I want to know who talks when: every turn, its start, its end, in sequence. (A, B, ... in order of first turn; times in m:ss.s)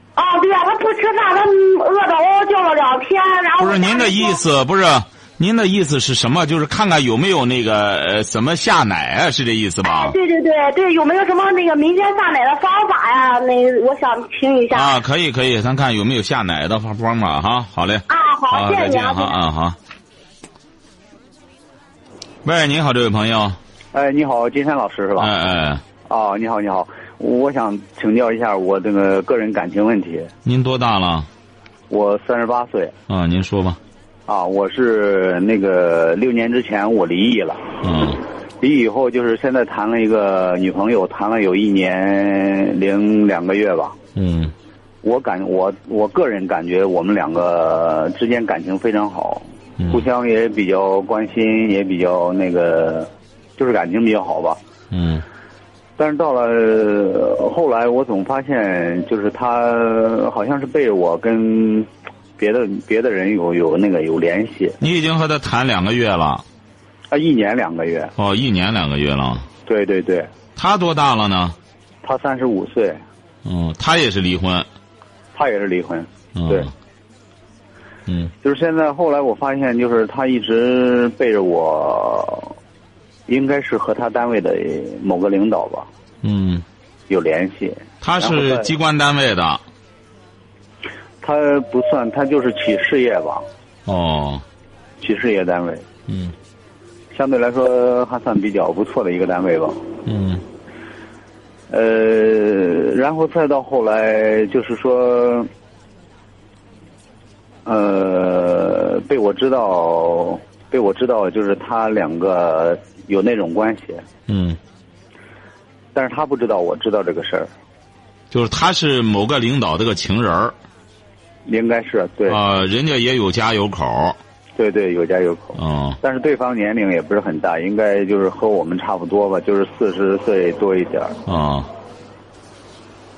0:00.2-0:04.4 A
0:03.6-0:10.2 B
0:09.8-0:15.0 A
0:14.7-0:19.8 B
0:18.1-0:19.4 A
0:22.4-0:23.6 B
0:23.9-0:25.3 C
0:25.2-0:25.8 B
0:26.0-0:30.3 C
0:30.4-0:31.3 B
0:31.9-0:32.9 C
0:33.1-0:33.8 B
0:34.3-0:37.6 C
0:37.8-0:38.2 B
0:38.6-0:44.0 C
0:44.2-0:44.5 B
0:45.0-0:54.6 C
0:49.8-0:50.0 B
0:54.9-0:55.2 B
0:56.0-1:04.8 C
1:04.8-1:06.4 B
1:07.1-1:08.1 C
1:08.2-1:09.5 B
1:09.6-1:10.3 C
1:10.6-1:11.6 B
1:12.0-1:13.0 C
1:13.4-1:14.7 B
1:15.3-1:16.7 C
1:16.3-1:16.7 B
1:18.4-1:22.5 C
1:23.3-1:25.9 C
1:26.2-1:26.6 B
1:27.1-1:28.7 C
1:28.0-1:29.6 B
1:31.2-1:33.4 C
1:33.8-1:34.4 B
1:35.0-1:35.8 C
1:36.1-1:36.3 B
1:37.1-1:39.8 C
1:40.0-1:40.4 B
1:41.7-1:45.5 C
1:47.6-1:54.0 C
1:54.3-1:54.6 B
1:55.9-1:57.5 C
1:58.3-2:00.5 B
2:01.4-2:02.4 C
2:02.3-2:04.2 B
2:04.6-2:11.2 C
2:05.6-2:06.0 B
2:11.3-2:11.7 B